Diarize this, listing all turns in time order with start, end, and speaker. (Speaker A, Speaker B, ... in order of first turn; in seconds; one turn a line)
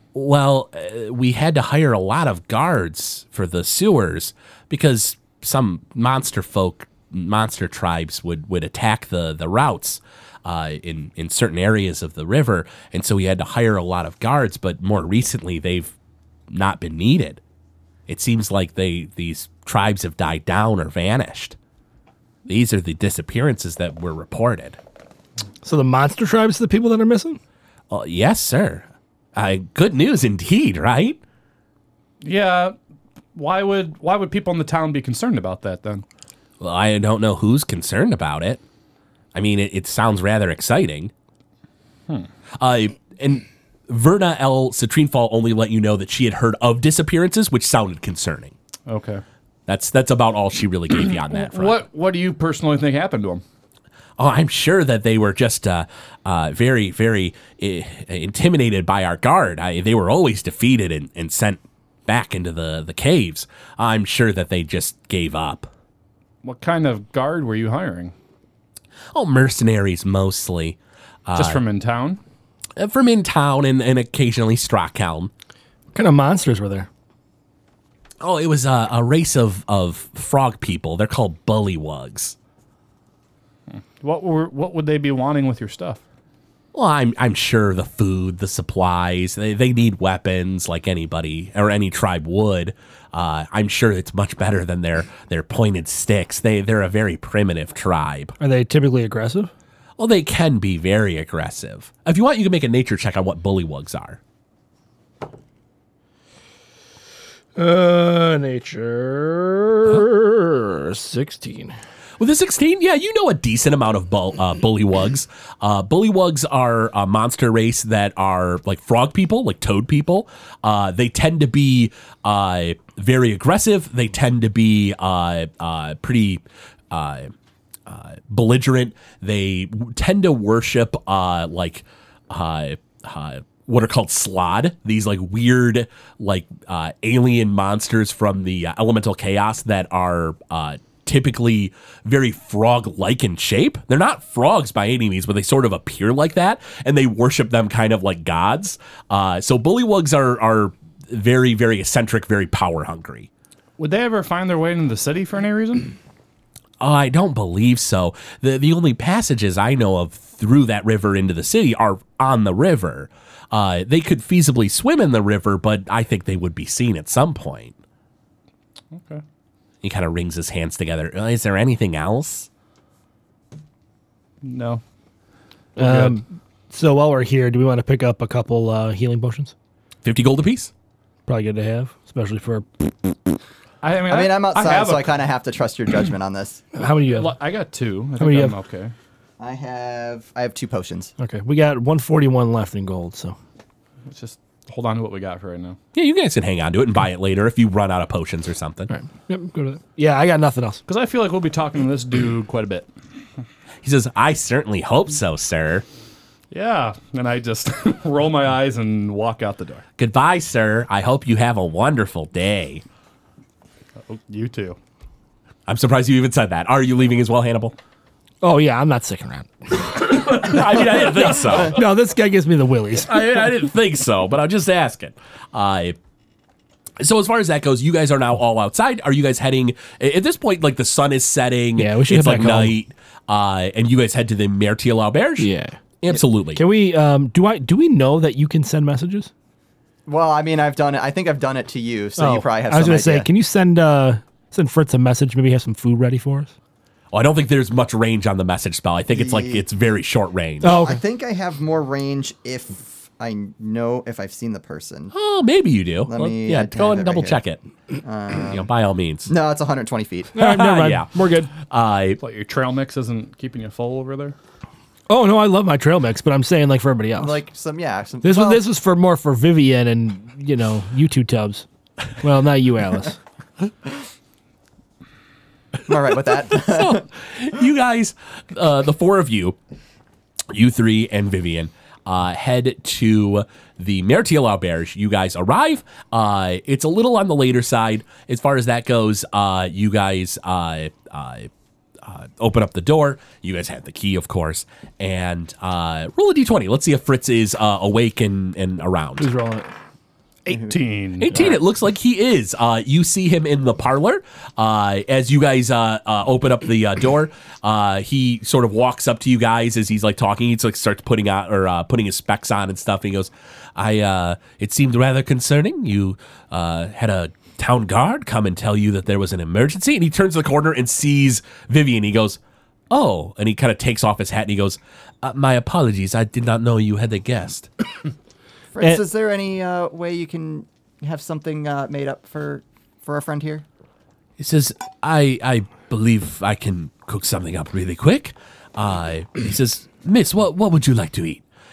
Speaker A: 0.1-15.9
Speaker A: 16.5-17.4
Speaker A: 18.1-21.6
Speaker A: 22.5-24.8
Speaker B: 25.6-27.4
Speaker A: 27.9-31.2
Speaker C: 32.2-32.8
Speaker C: 33.3-36.0
Speaker A: 36.6-38.6
Speaker A: 39.3-41.1
Speaker A: 42.6-48.5
Speaker C: 48.9-49.2
Speaker A: 49.7-51.8
Speaker C: 51.3-53.4
Speaker A: 54.2-65.7
Speaker C: 66.4-68.1
Speaker A: 69.1-71.6
Speaker C: 71.4-72.2
Speaker A: 72.8-75.3
Speaker B: 75.9-76.9
Speaker A: 78.2-82.4
Speaker C: 83.7-86.0
Speaker A: 86.7-98.4
Speaker B: 98.4-99.5
Speaker A: 100.0-104.2
Speaker B: 107.6-111.8
Speaker A: 112.2-127.3
Speaker A: 127.9-153.3
Speaker C: 153.8-155.9
Speaker A: 156.8-167.8
Speaker C: 168.9-169.2
Speaker A: 169.8-172.5
Speaker C: 174.4-174.8
Speaker B: 175.8-179.5
Speaker C: 175.8-176.2
Speaker A: 180.0-180.7
Speaker B: 181.3-183.2
Speaker C: 183.8-185.2
Speaker D: 184.1-186.6
Speaker B: 186.7-187.3
Speaker C: 187.1-188.9
Speaker B: 188.2-188.5
Speaker D: 189.4-191.1
Speaker B: 191.2-193.4
Speaker C: 194.1-195.8
Speaker A: 195.9-198.9
Speaker B: 198.9-200.8
Speaker C: 200.9-202.9
Speaker A: 203.8-205.9
Speaker C: 206.5-209.8
Speaker A: 210.0-212.8
Speaker C: 214.0-214.8
Speaker A: 215.7-217.8
Speaker B: 218.4-223.3
Speaker A: 220.1-221.8
Speaker A: 223.1-226.0
Speaker A: 227.0-235.5
Speaker B: 231.8-232.8
Speaker B: 235.4-235.8
Speaker A: 236.0-236.6
Speaker B: 236.6-239.3
Speaker D: 240.1-243.3
Speaker B: 242.2-246.5
Speaker A: 247.1-250.7
Speaker D: 249.1-249.7
Speaker B: 250.6-251.0
Speaker D: 250.6-255.1
Speaker A: 255.1-257.6
Speaker D: 256.1-257.4
Speaker D: 258.0-258.7
Speaker A: 258.4-259.3
Speaker D: 259.3-260.4
Speaker B: 260.4-261.5
Speaker A: 260.4-262.2
Speaker C: 262.2-264.4
Speaker B: 265.1-267.4
Speaker D: 267.2-268.6
Speaker B: 268.2-271.7
Speaker B: 272.2-273.2
Speaker D: 275.9-277.1
Speaker A: 276.5-279.6
Speaker A: 280.5-291.5
Speaker A: 292.0-299.3
Speaker B: 299.2-299.7
Speaker C: 300.4-301.6
Speaker A: 301.2-327.7
Speaker D: 328.7-333.6
Speaker A: 334.4-341.4